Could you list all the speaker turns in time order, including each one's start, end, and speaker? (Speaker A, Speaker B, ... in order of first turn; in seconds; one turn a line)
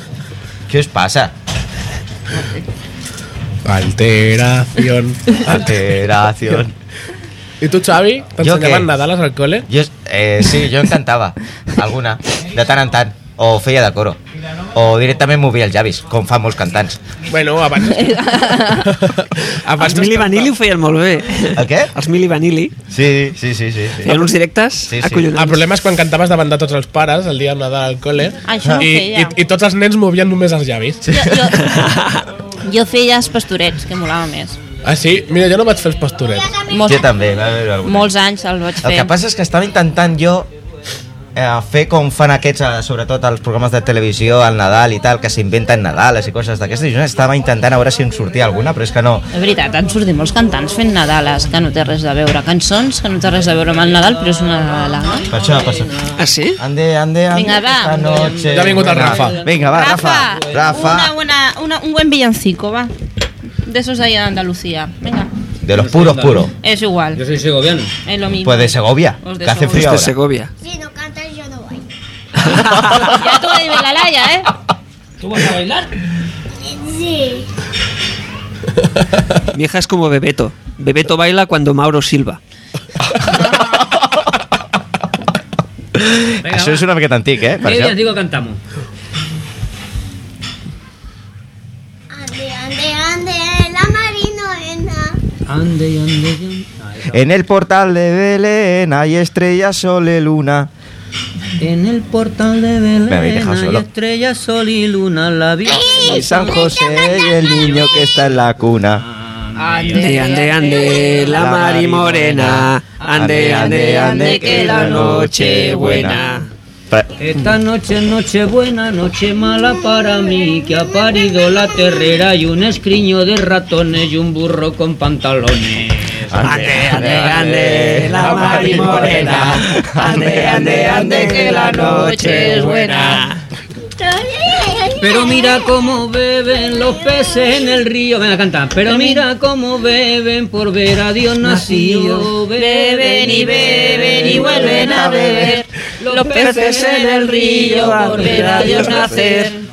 Speaker A: 0.7-1.3
Speaker B: 3.6-5.4
Speaker A: 5.4-6.7
Speaker B: 7.6-9.7
Speaker A: 8.4-8.9
Speaker A: 9.7-14.2
Speaker A: 14.7-17.0
Speaker B: 17.3-20.5
Speaker C: 17.9-18.9
Speaker D: 19.8-22.7
Speaker A: 21.5-21.9
Speaker A: 22.9-24.3
Speaker D: 24.0-25.6
Speaker A: 24.9-25.3
Speaker B: 25.3-31.1
Speaker C: 28.4-29.4
Speaker C: 31.1-31.8
Speaker D: 31.6-32.2
Speaker C: 32.6-34.6
Speaker B: 34.8-36.5
Speaker E: 36.3-37.0
Speaker C: 36.7-37.0
Speaker A: 36.8-38.1
Speaker C: 37.8-39.1
Speaker A: 38.8-40.5
Speaker A: 41.3-49.3
Speaker C: 49.3-55.3
Speaker F: 55.3-56.2
Speaker A: 55.3-55.9
Speaker D: 56.2-56.6
Speaker A: 56.6-61.1
Speaker C: 57.3-58.2
Speaker F: 57.9-60.9
Speaker B: 58.5-59.4
Speaker C: 59.7-62.9
Speaker C: 63.6-65.3
Speaker A: 65.6-66.5
Speaker F: 65.7-66.5
Speaker C: 66.6-67.2
Speaker F: 67.1-67.9
Speaker C: 68.0-69.9
Speaker A: 68.4-70.1
Speaker D: 69.7-70.5
Speaker E: 70.6-71.8
Speaker D: 72.4-73.0
Speaker C: 72.7-74.5
Speaker F: 75.2-76.0
Speaker E: 76.6-77.5
Speaker D: 79.5-82.4
Speaker C: 83.3-83.8
Speaker A: 85.9-88.0
Speaker F: 86.4-86.8
Speaker F: 87.6-88.6
Speaker E: 92.1-95.2
Speaker F: 95.5-97.2
Speaker A: 97.1-100.7
Speaker F: 101.6-106.5
Speaker A: 103.0-103.8
Speaker E: 105.8-107.2
Speaker A: 105.9-109.0
Speaker F: 107.3-108.2
Speaker F: 109.1-110.3
Speaker C: 109.5-111.3
Speaker D: 109.9-116.5
Speaker A: 111.3-116.2
Speaker F: 113.0-113.8
Speaker C: 113.6-116.4
Speaker F: 117.2-126.4
Speaker A: 126.3-132.3
Speaker D: 126.4-133.4
Speaker F: 128.6-129.6
Speaker C: 130.0-133.2
Speaker F: 130.5-132.0
Speaker E: 134.0-135.6
Speaker F: 135.0-149.1
Speaker C: 138.8-139.2
Speaker D: 141.4-142.2
Speaker C: 141.7-149.6
Speaker A: 144.0-145.7
Speaker D: 146.2-149.5